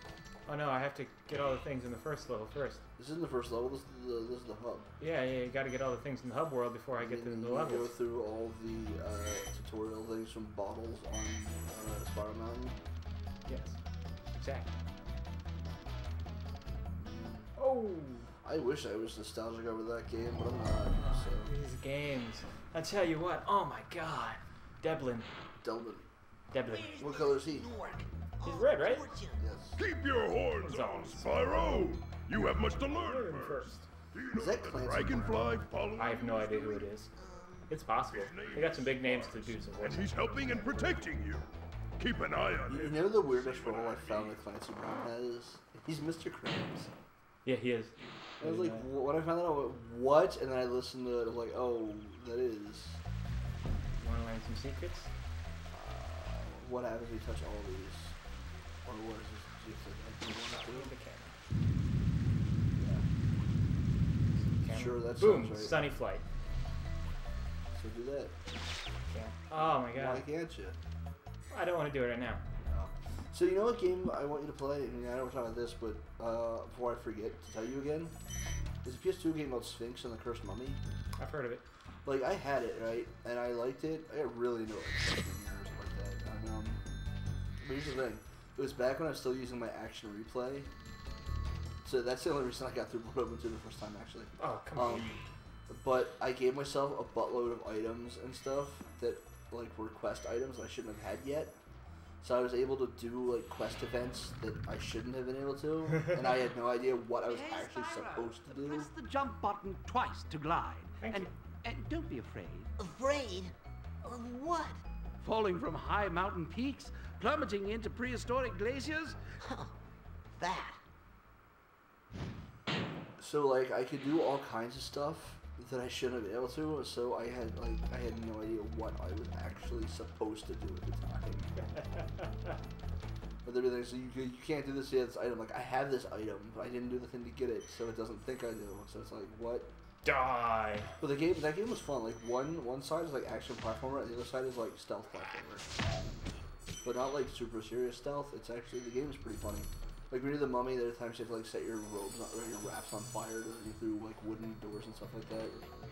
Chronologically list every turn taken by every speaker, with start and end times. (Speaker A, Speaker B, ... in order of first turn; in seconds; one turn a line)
Speaker A: 0.5-2.8
Speaker B: 3.0-4.9
Speaker A: 5.0-8.0
Speaker B: 7.0-12.8
Speaker A: 13.5-13.8
Speaker A: 14.3-14.7
Speaker B: 17.0-17.5
Speaker A: 17.6-18.3
Speaker B: 18.4-21.5
Speaker A: 21.0-25.3
Speaker B: 25.6-26.1
Speaker A: 26.5-27.0
Speaker C: 26.7-29.4
Speaker B: 27.0-27.7
Speaker A: 28.4-29.2
Speaker B: 29.4-29.8
Speaker D: 29.8-36.9
Speaker A: 30.6-31.9
Speaker A: 32.9-33.9
Speaker B: 34.3-35.6
Speaker A: 36.0-37.1
Speaker C: 37.2-37.7
Speaker A: 37.7-41.0
Speaker D: 38.1-41.5
Speaker D: 42.0-44.4
Speaker B: 42.7-46.9
Speaker A: 47.5-48.9
Speaker B: 48.4-53.0
Speaker A: 54.0-55.1
Speaker B: 55.7-58.1
Speaker B: 58.9-60.9
Speaker A: 60.3-61.4
Speaker B: 62.8-63.0
Speaker A: 64.3-66.2
Speaker B: 64.7-65.8
Speaker B: 67.7-68.3
Speaker A: 69.1-70.3
Speaker B: 69.6-70.8
Speaker A: 71.5-72.4
Speaker B: 72.7-78.2
Speaker B: 78.8-80.8
Speaker A: 81.2-81.6
Speaker B: 82.0-86.8
Speaker B: 87.6-90.7
Speaker B: 91.8-95.1
Speaker A: 94.4-95.2
Speaker B: 95.7-101.6
Speaker B: 102.2-108.9
Speaker E: 107.3-112.7
Speaker A: 111.0-111.3
Speaker C: 112.8-114.8
Speaker E: 115.2-119.2
Speaker C: 119.4-119.7
Speaker C: 120.4-120.8
Speaker B: 123.2-131.7
Speaker B: 133.4-139.7
Speaker A: 140.0-140.9
Speaker B: 141.0-145.7
Speaker B: 146.8-155.7